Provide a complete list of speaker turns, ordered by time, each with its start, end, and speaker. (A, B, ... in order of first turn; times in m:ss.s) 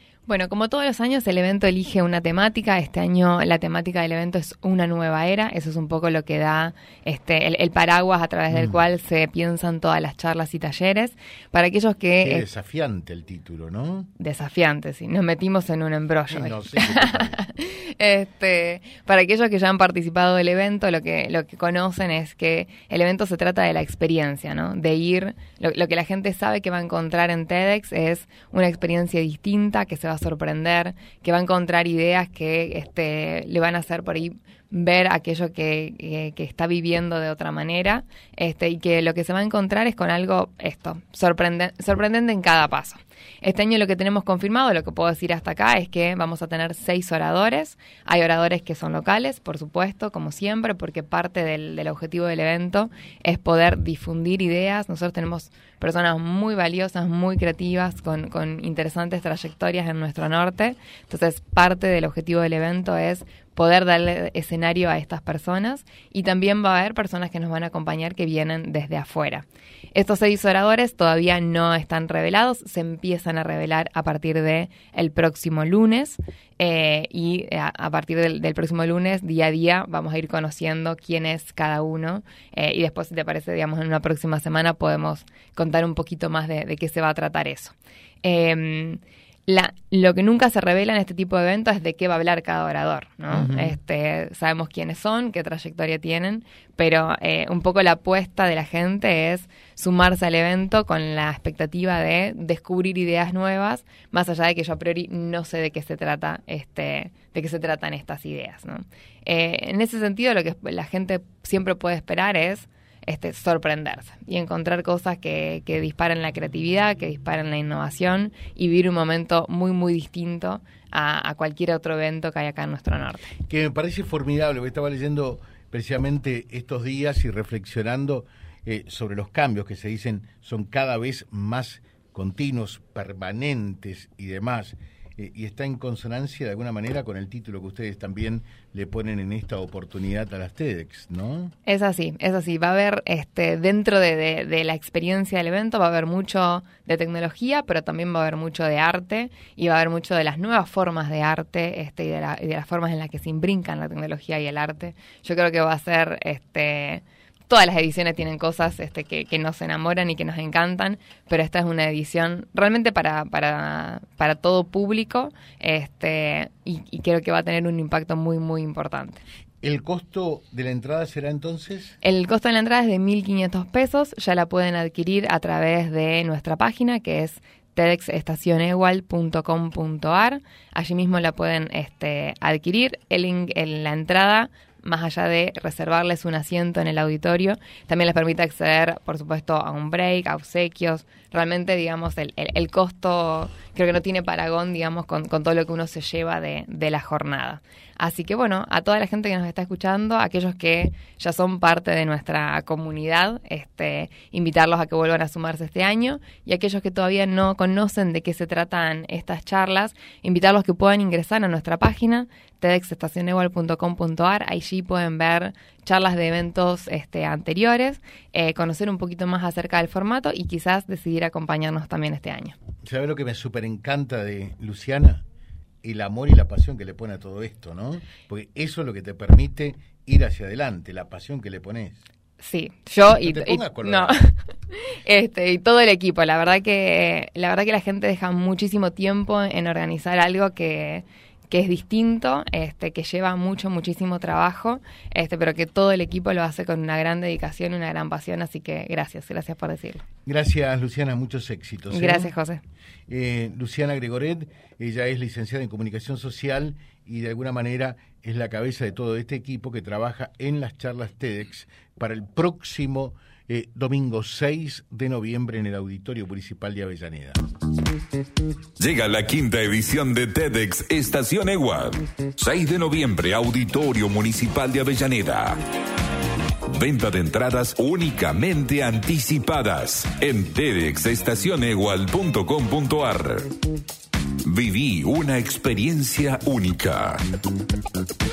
0:00.3-0:12.4 A
0:08.5-0:08.8 B
0:12.2-0:14.1 B
0:14.2-2:03.3 A
0:16.3-0:17.4 B
1:33.3-1:33.8 B
2:03.5-2:21.5 B
2:21.6-2:49.2 A
2:49.6-2:52.0 B
2:52.0-3:42.6 A
3:42.8-3:45.2 B
3:45.8-3:52.0 B
3:52.4-4:10.0 A
3:53.2-3:54.2 B
4:10.3-4:12.3 B
4:11.9-4:12.6 A
4:13.1-4:27.4 B
4:28.8-4:35.6 C
4:36.7-4:43.5 C
4:44.4-4:47.2 C